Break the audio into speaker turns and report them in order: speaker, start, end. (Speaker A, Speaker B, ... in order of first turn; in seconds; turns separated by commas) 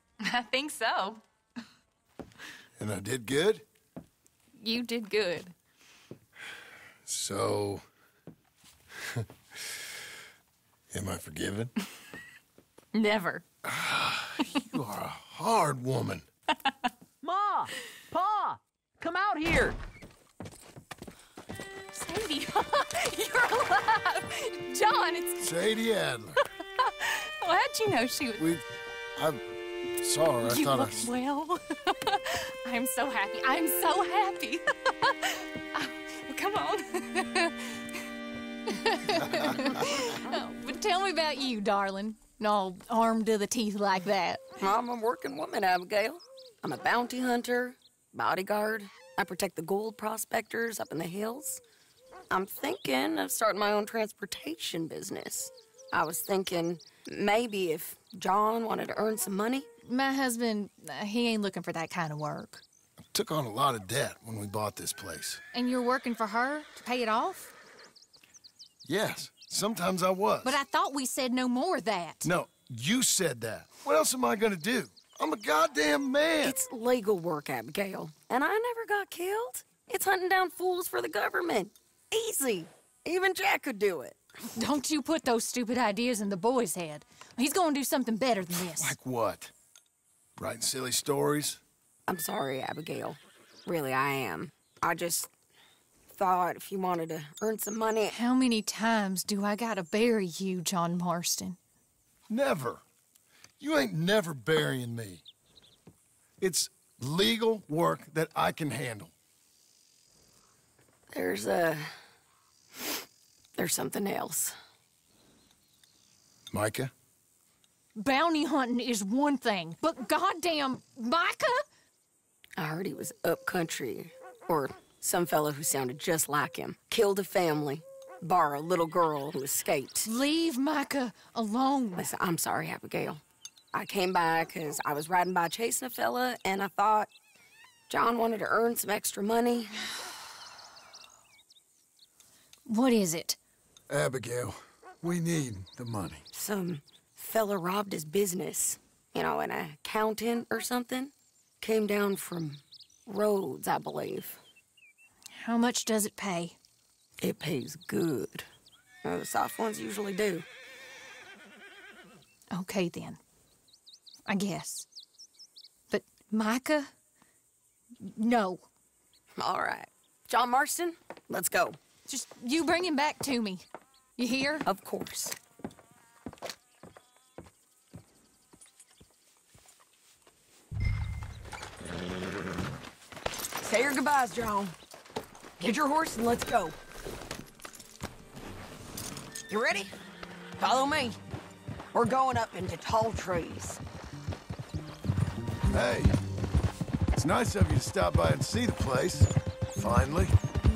Speaker A: 0.2-1.2, Speaker B: 2.8-3.6, Speaker A: 4.6-5.5, Speaker B: 7.1-7.8, Speaker B: 10.9-11.7, Speaker A: 12.9-13.4, Speaker B: 13.6-16.2, Speaker C: 17.2-19.8, Speaker A: 21.9-25.4, Speaker B: 25.4-26.4, Speaker A: 26.8-28.4, Speaker B: 28.4-28.6, Speaker B: 29.1-29.4, Speaker B: 30.0-31.1, Speaker A: 30.4-37.8, Speaker A: 38.7-44.5, Speaker D: 44.6-51.6, Speaker D: 52.3-59.7, Speaker A: 59.9-62.6, Speaker B: 63.1-65.4, Speaker A: 65.5-67.5, Speaker B: 68.8-70.6, Speaker A: 70.4-72.3, Speaker B: 72.2-76.5, Speaker D: 76.4-84.2, Speaker A: 84.5-89.0, Speaker B: 88.7-89.5, Speaker B: 90.4-91.6, Speaker D: 92.1-95.3, Speaker D: 96.1-98.2, Speaker A: 98.1-101.6, Speaker B: 102.3-102.8, Speaker B: 103.6-105.2, Speaker B: 106.4-109.1, Speaker D: 111.1-111.9, Speaker D: 113.5-114.5, Speaker B: 116.5-116.9, Speaker A: 118.0-121.5, Speaker D: 122.6-130.1, Speaker A: 130.0-132.1, Speaker D: 131.9-133.2, Speaker D: 133.7-137.1, Speaker D: 137.9-140.0, Speaker A: 142.7-143.4, Speaker B: 143.9-146.2, Speaker D: 146.3-154.4, Speaker A: 155.4-156.6, Speaker D: 157.2-158.5, Speaker D: 159.0-160.5, Speaker A: 162.5-163.2, Speaker A: 164.3-164.9, Speaker A: 165.9-166.9, Speaker A: 168.2-168.7, Speaker D: 169.4-171.8, Speaker A: 172.1-173.6, Speaker A: 174.2-174.6, Speaker D: 174.6-175.3, Speaker D: 183.6-184.8, Speaker D: 185.6-186.8, Speaker D: 189.5-189.9, Speaker D: 190.6-191.2, Speaker D: 191.9-193.8, Speaker B: 195.7-196.2, Speaker B: 197.1-200.3